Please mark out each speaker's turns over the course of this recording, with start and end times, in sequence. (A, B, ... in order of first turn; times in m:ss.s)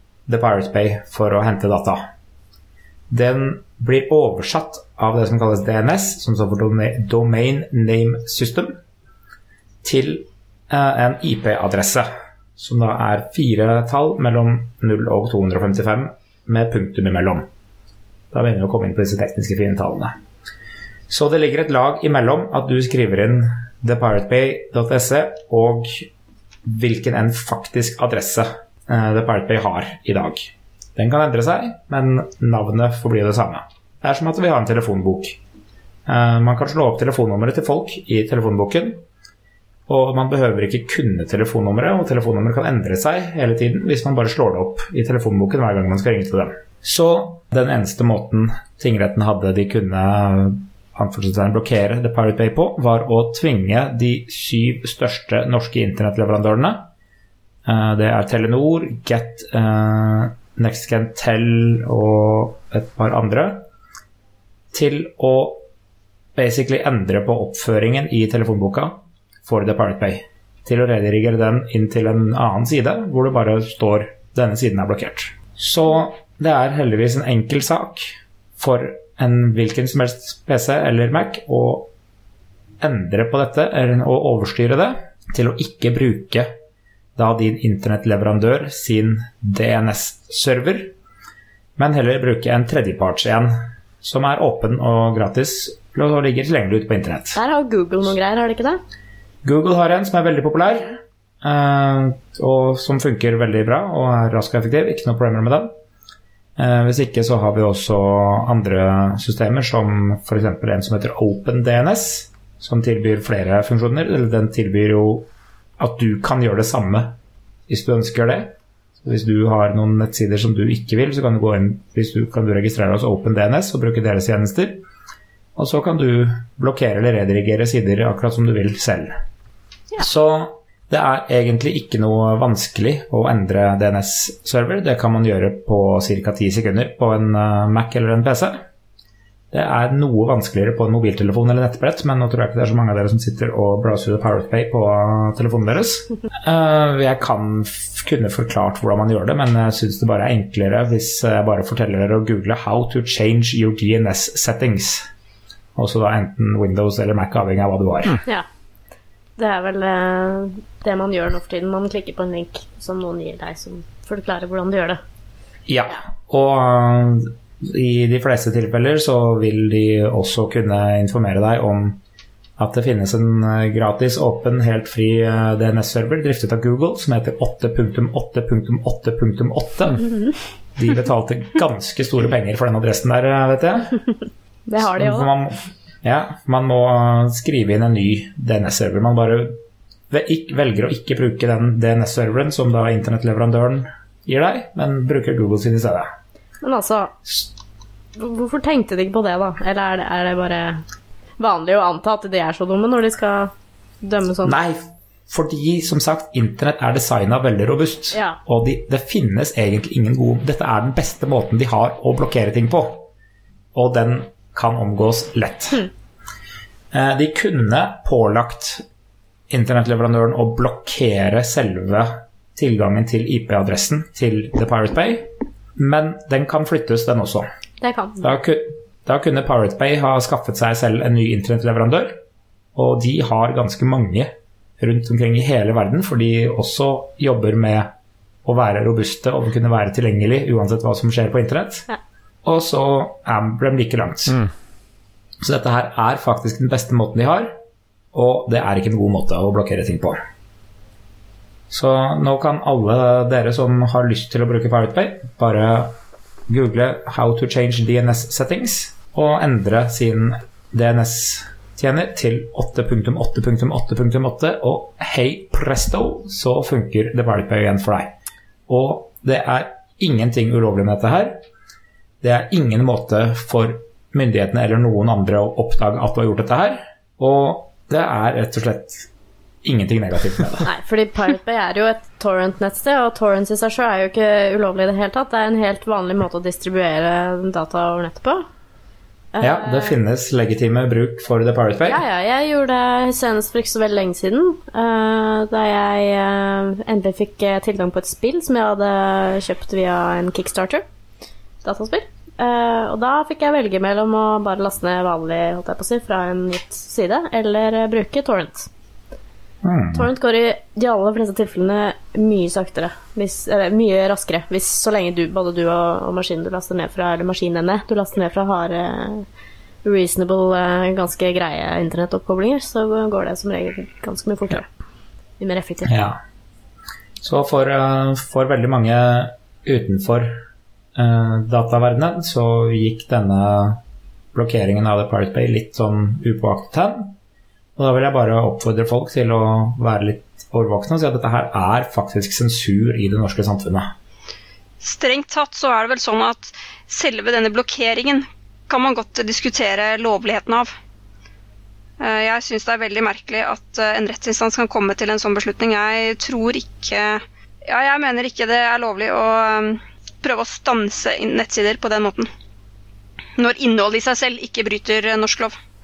0:00.3-0:02.0 A
0:03.1-0:08.8 A
0:09.8-0:17.5 A
0:18.3-0:20.2 A
0:21.1-0:26.1 A
0:26.7-0:35.4 A
0:36.1-0:39.0 A
0:39.9-0:56.9 A
0:57.7-1:03.7 A
1:04.7-1:05.6 A
1:06.4-1:21.9 A
1:22.8-1:26.5 A
1:27.2-1:30.9 A
1:31.8-1:37.4 A
1:37.4-1:38.8 B
1:39.4-1:45.7 A
1:46.6-1:57.2 A
1:57.7-2:04.8 A
2:05.6-2:09.2 A
2:10.0-2:18.6 A
2:19.5-2:35.1 A
2:35.8-2:38.2 A
2:39.4-2:45.0 B
2:45.7-2:52.0 A
2:52.6-3:00.1 A
3:00.8-3:04.0 A
3:04.7-3:05.3 B
3:04.8-3:16.1 A
3:16.6-3:17.2 B
3:18.2-3:20.8 B
3:21.4-3:24.6 B
3:24.4-3:33.1 A
3:28.1-3:28.4 B
3:33.7-3:35.9 A
3:36.9-3:38.8 A
3:39.5-3:47.5 A
3:47.8-3:48.3 B
3:48.2-3:52.2 A
3:52.8-3:57.9 A
3:58.4-4:01.9 A
4:02.4-4:04.4 A
4:05.4-4:07.6 A
4:08.1-4:10.2 A
4:11.7-4:16.0 A
4:16.5-4:28.1 A
4:28.7-4:31.4 A
4:32.2-4:39.1 A
4:39.6-4:40.7 A
4:40.6-4:48.4 B
4:49.3-4:50.0 B
4:49.4-4:52.0 A
4:51.8-5:00.8 B
5:01.6-5:08.7 B
5:09.6-5:10.1 A
5:09.9-5:19.3 B
5:19.8-5:24.7 B
5:25.4-5:26.1 B
5:25.9-5:26.2 A
5:27.2-5:30.4 A
5:31.0-5:33.8 A
5:34.3-5:37.2 A
5:37.8-5:43.9 A
5:44.8-5:50.7 C
5:52.0-6:02.3 C
6:03.4-6:05.6 C